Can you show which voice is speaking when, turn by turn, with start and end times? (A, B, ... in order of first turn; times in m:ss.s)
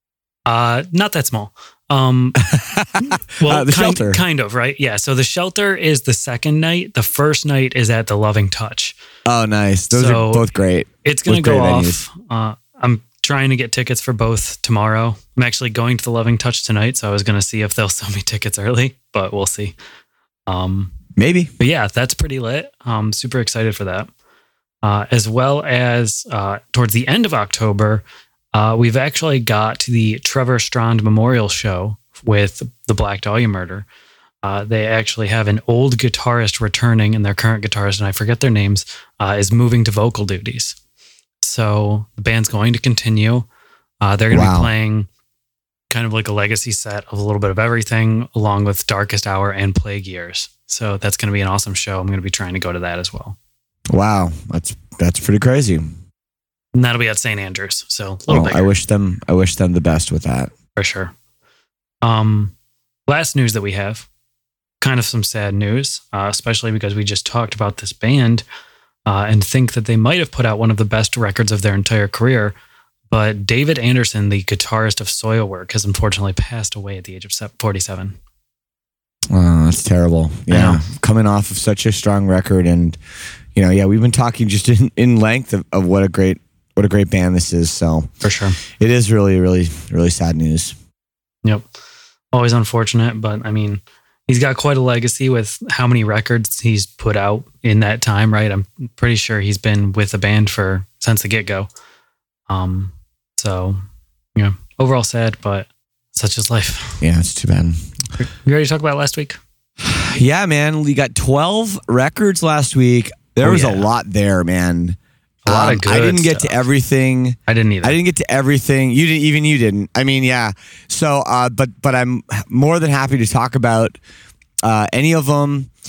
0:00.4-0:02.4 A
0:02.4-0:04.2 B
0:03.4-0:09.0 A
0:09.2-0:12.0 B
0:09.9-0:10.5 A
0:11.0-0:19.8 A
0:20.5-0:20.9 A
0:21.2-0:21.5 B
0:21.6-0:24.1 A
0:24.8-0:33.8 A
0:34.4-0:40.8 A
0:41.4-0:43.5 A
0:44.0-0:45.1 A
0:44.3-0:44.7 B
0:45.9-0:53.4 A
0:53.9-0:55.9 B
0:56.7-0:58.7 A
0:58.3-1:00.5 B
1:00.8-1:01.1 A
1:02.0-1:02.5 A
1:03.1-1:04.1 A
1:04.8-1:08.4 A
1:09.0-1:12.5 A
1:13.1-1:18.2 A
1:19.3-1:23.0 B
1:20.5-1:20.8 A
1:23.5-1:28.1 B
1:28.2-1:28.6 A
1:28.8-1:30.7 B
1:32.3-1:41.7 A
1:42.5-1:43.8 A
1:44.4-1:47.0 A
1:47.0-1:47.8 B
1:48.2-1:49.4 A
1:49.8-2:04.0 B
1:53.4-1:53.9 A
1:55.4-1:56.6 A
1:57.5-1:58.0 A
2:04.6-2:05.7 B